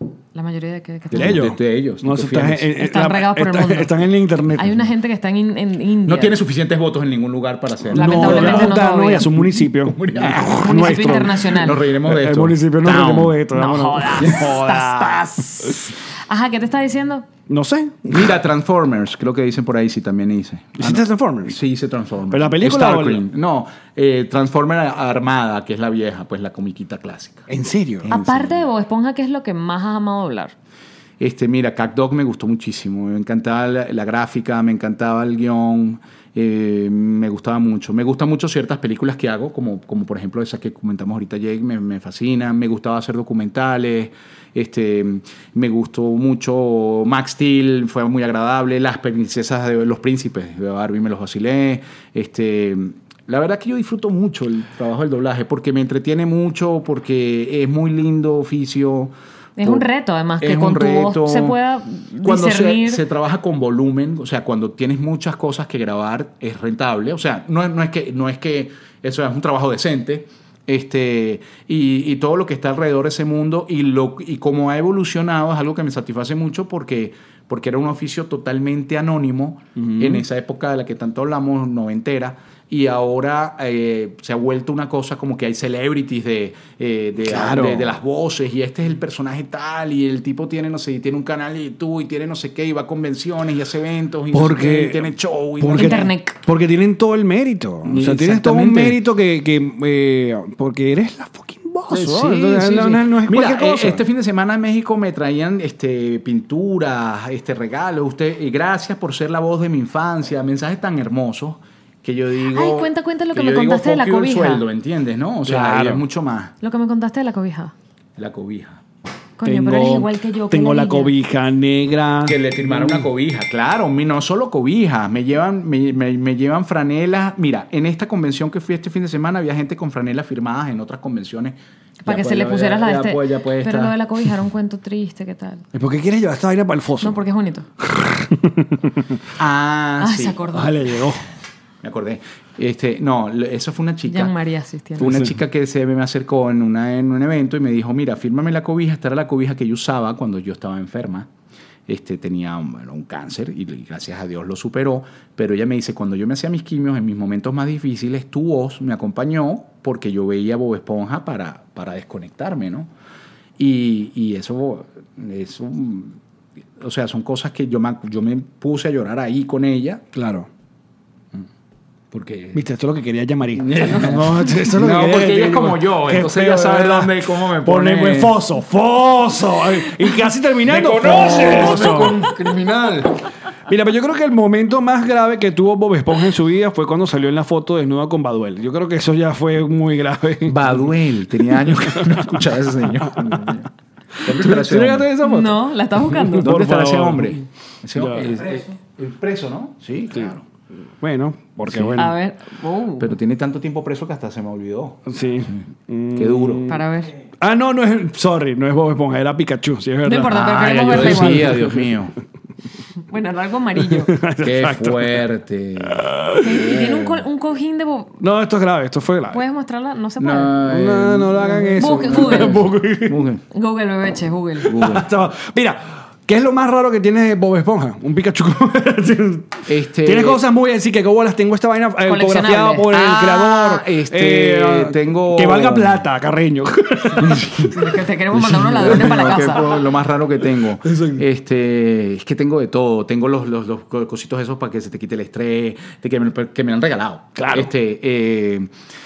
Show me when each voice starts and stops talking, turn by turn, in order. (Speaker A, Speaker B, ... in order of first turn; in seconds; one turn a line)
Speaker A: 0.3-1.4
Speaker B: 1.1-2.7
Speaker C: 1.1-4.8
Speaker A: 2.8-4.0
Speaker A: 4.6-6.3
Speaker B: 6.0-8.7
Speaker C: 7.9-15.8
Speaker A: 7.9-9.3
Speaker B: 9.4-13.3
Speaker A: 10.5-11.8
Speaker A: 13.5-17.2
Speaker B: 14.2-14.5
Speaker C: 17.5-18.4
Speaker B: 18.1-27.5
Speaker C: 20.8-21.6
Speaker C: 22.3-23.2
Speaker C: 27.5-28.1
Speaker B: 28.0-28.6
Speaker A: 28.1-30.5
Speaker B: 31.2-59.9
Speaker A: 59.6-63.0
Speaker B: 60.4-61.6
Speaker B: 62.2-96.1
Speaker C: 79.8-80.2
Speaker C: 87.2-87.9
Speaker C: 94.3-95.0
Speaker C: 95.6-104.0
Speaker A: 95.8-96.4
Speaker B: 97.8-99.0
Speaker B: 101.9-116.5
Speaker A: 112.5-114.6
Speaker C: 115.5-116.0
Speaker A: 116.6-117.7
Speaker B: 118.2-118.8
Speaker A: 119.4-121.1
Speaker C: 119.4-123.0
Speaker B: 122.2-133.9
Speaker A: 132.0-135.6
Speaker C: 135.7-137.2
Speaker A: 137.0-137.7
Speaker C: 137.8-139.2
Speaker B: 139.4-140.4
Speaker A: 140.0-140.7
Speaker C: 140.5-141.2
Speaker B: 141.8-144.3
Speaker A: 144.1-145.1
Speaker B: 145.0-151.3
Speaker C: 145.0-145.3
Speaker B: 151.9-162.9
Speaker B: 163.6-166.2
Speaker B: 166.8-170.0
Speaker C: 170.1-170.5
Speaker B: 172.1-172.6
Speaker C: 172.5-182.2
Speaker B: 173.5-178.3
Speaker B: 180.6-183.1
Speaker C: 183.7-190.6
Speaker B: 190.4-195.1
Speaker C: 191.4-192.3
Speaker C: 193.0-193.5
Speaker C: 194.2-197.4
Speaker A: 195.2-196.5
Speaker B: 196.4-200.4
Speaker C: 197.9-198.4
Speaker C: 201.0-202.1
Speaker B: 201.7-202.0
Speaker A: 202.0-203.1
Speaker B: 203.0-205.6
Speaker C: 205.1-206.8
Speaker B: 206.1-206.6
Speaker A: 206.7-207.1
Speaker C: 207.4-211.9
Speaker A: 210.0-211.5
Speaker B: 210.3-212.1
Speaker A: 213.1-214.1
Speaker C: 213.9-215.2
Speaker B: 214.4-217.2
Speaker C: 215.8-216.6
Speaker A: 216.4-218.2
Speaker C: 218.2-219.4
Speaker A: 219.3-220.6
Speaker B: 220.2-223.4
Speaker C: 220.6-223.2
Speaker A: 221.8-222.6
Speaker A: 223.5-224.8
Speaker C: 224.6-237.7
Speaker B: 224.7-225.1
Speaker B: 229.7-230.4
Speaker A: 232.1-233.0
Speaker B: 232.9-236.0
Speaker B: 237.2-237.8
Speaker A: 237.7-239.7
Speaker C: 238.3-239.8
Speaker B: 238.8-248.7
Speaker C: 240.8-241.2
Speaker C: 247.3-247.7